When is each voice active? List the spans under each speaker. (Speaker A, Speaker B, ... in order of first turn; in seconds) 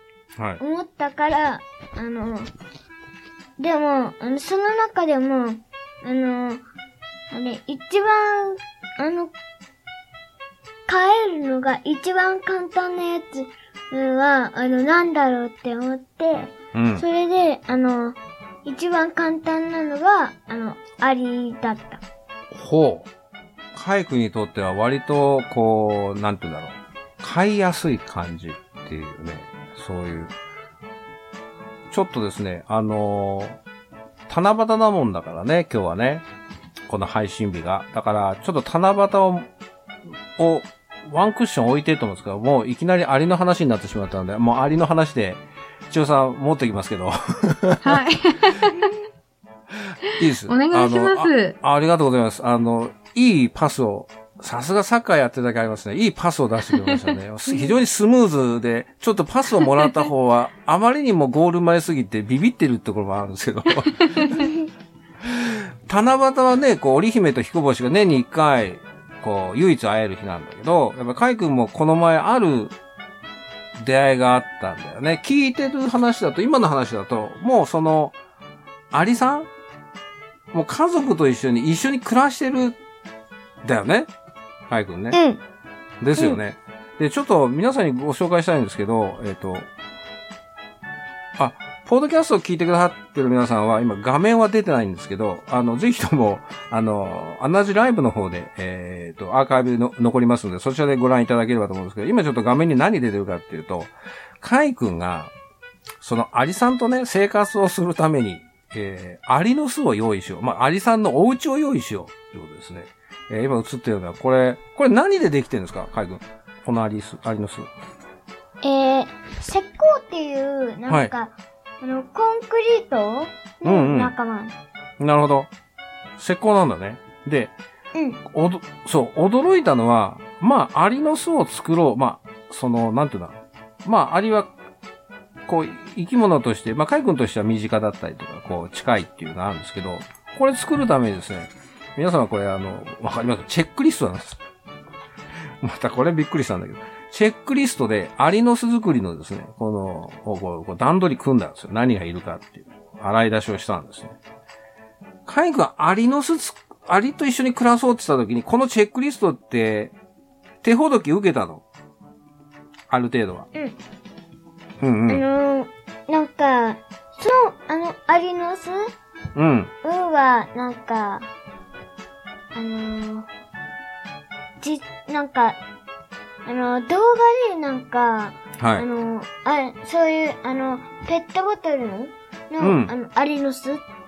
Speaker A: 0.6-2.5, 3.6-6.6, 7.3-9.3, 10.9-22.0, 85.1-85.4, 118.6-124.5, 127.9-128.2, 165.1-168.8, 169.8-171.2, 172.5-173.3, 174.6-175.6, 176.4-183.8
Speaker B: 16.7-17.0, 22.5-23.1, 23.7-30.3, 31.9-33.6, 34.3-36.2, 36.9-39.5, 40.4-48.0, 50.1-64.4, 65.2-72.7, 73.8-78.2, 78.9-79.5, 80.5-82.8, 83.6-84.1, 84.7-85.2, 86.0-89.7, 91.4-105.3, 106.0-117.7, 120.9-121.1, 123.6-124.1, 125.0-125.5, 126.2-127.5, 128.3-134.5, 135.4-144.4, 145.6-154.2, 155.2-159.9, 160.6-161.6, 162.9-163.5, 164.8-165.2, 169.3-169.7, 178.6-178.8, 182.6-182.9
Speaker C: 47.8-48.9, 50.1-51.5, 56.8-57.1, 59.6-59.9